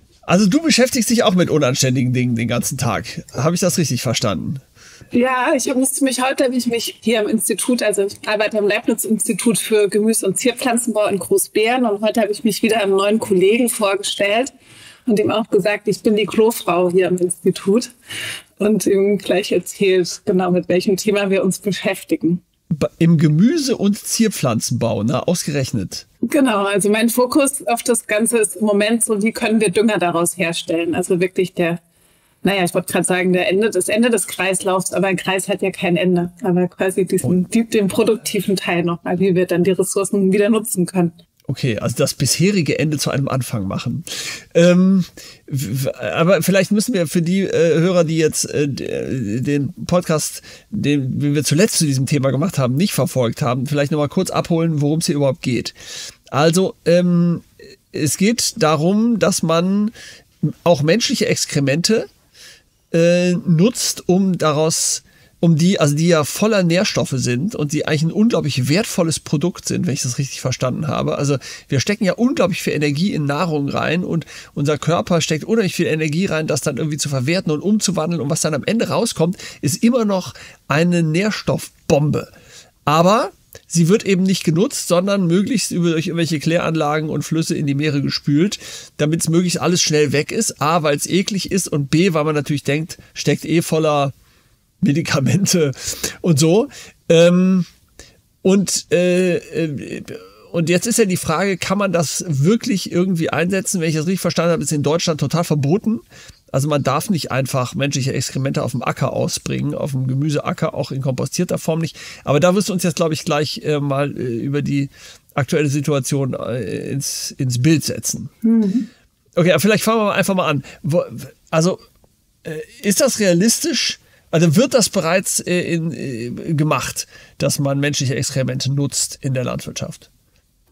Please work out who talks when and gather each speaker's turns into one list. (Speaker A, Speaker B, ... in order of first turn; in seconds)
Speaker A: 0.2-4.6, 22.7-26.0, 41.5-55.7, 56.3-62.1, 62.9-82.3, 82.9-94.1, 94.8-97.7, 98.4-118.3, 119.3-121.8, 122.4-130.1
Speaker B: 5.1-14.5, 15.1-17.9, 18.6-22.4, 26.2-31.8, 32.4-41.1, 118.4-118.9